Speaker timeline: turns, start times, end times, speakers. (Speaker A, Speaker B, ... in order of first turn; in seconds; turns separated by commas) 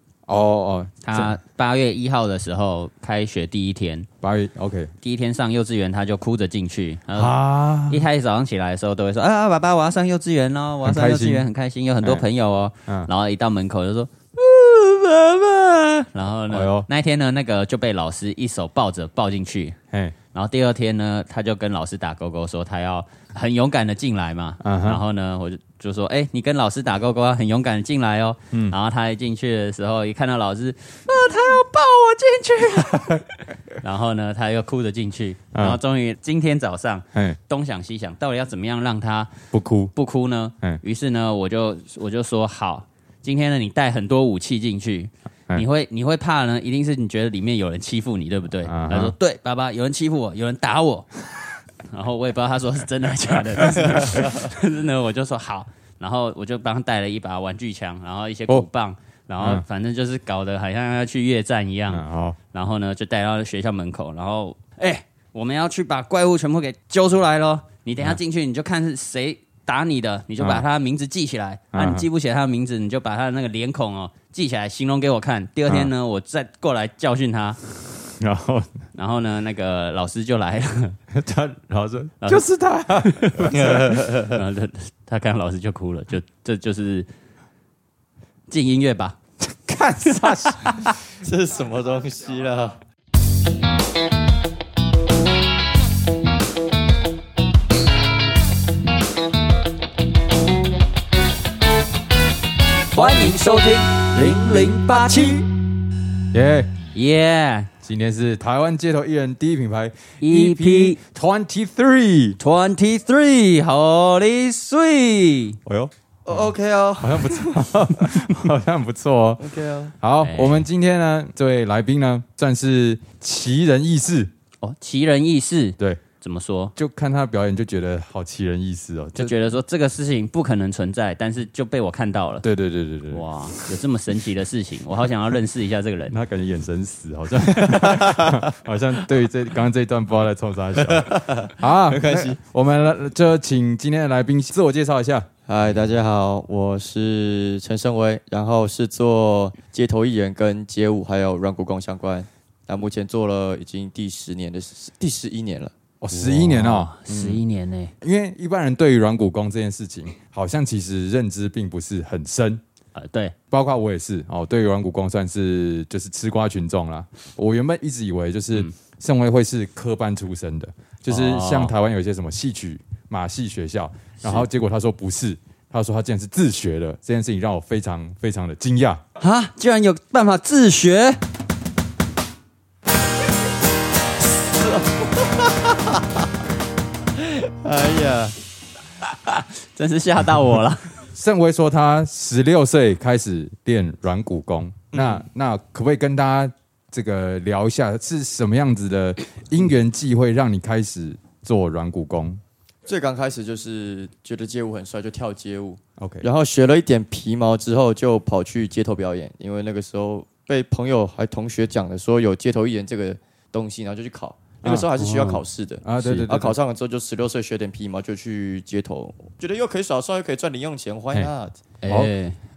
Speaker A: 0.3-1.4, Speaker B: 1.0-4.1, Speaker A: 4.2-4.9, Speaker B: 5.0-19.8, Speaker A: 7.1-8.0, Speaker A: 10.8-11.5, Speaker A: 16.5-16.9, Speaker B: 20.3-33.2, Speaker A: 24.6-25.0, Speaker A: 32.9-33.2, Speaker B: 33.8-39.4, Speaker A: 35.5-35.8, Speaker A: 37.1-37.4, Speaker A: 39.5-39.9, Speaker B: 39.9-51.1, Speaker A: 48.6-49.1, Speaker B: 51.9-77.6, Speaker A: 53.6-54.3, Speaker A: 61.9-62.4, Speaker A: 70.4-70.6, Speaker A: 71.7-72.0, Speaker A: 78.1-78.7, Speaker B: 78.9-81.0, Speaker A: 81.1-84.0, Speaker B: 83.0-87.1, Speaker C: 83.5-84.3, Speaker B: 88.5-89.2, Speaker A: 89.4-90.9, Speaker B: 90.2-90.5, Speaker C: 91.2-92.8, Speaker B: 102.9-105.5, Speaker A: 106.3-106.7, Speaker B: 106.9-107.7, Speaker A: 107.8-112.4, Speaker B: 110.2-111.0, Speaker B: 112.4-115.6, Speaker A: 115.7-119.5, Speaker C: 116.2-118.3, Speaker C: 119.4-119.9, Speaker A: 120.0-124.3, Speaker B: 120.2-120.6, Speaker B: 124.6-126.7, Speaker A: 126.8-129.3, Speaker B: 129.2-132.4, Speaker A: 132.4-133.7, Speaker B: 133.1-136.2, Speaker A: 136.1-145.3, Speaker C: 137.7-138.4, Speaker C: 140.7-142.4, Speaker C: 145.5-155.7, Speaker A: 156.0-157.4, Speaker B: 156.1-157.9, Speaker A: 158.0-162.6, Speaker B: 162.9-163.3, Speaker A: 163.5-179.0, Speaker B: 171.1-171.7, Speaker B: 174.2-174.5, Speaker B: 179.2-181.2, Speaker C: 184.6-186.1, Speaker C: 187.2-188.3, Speaker B: 189.1-190.9, Speaker A: 191.1-202.4, Speaker C: 194.9-195.2, Speaker C: 202.9-221.6, Speaker A: 206.0-206.3, Speaker A: 214.6-214.9, Speaker B: 215.0-215.4, Speaker A: 215.8-216.6, Speaker B: 216.0-216.3, Speaker B: 221.8-222.4, Speaker A: 221.9-222.1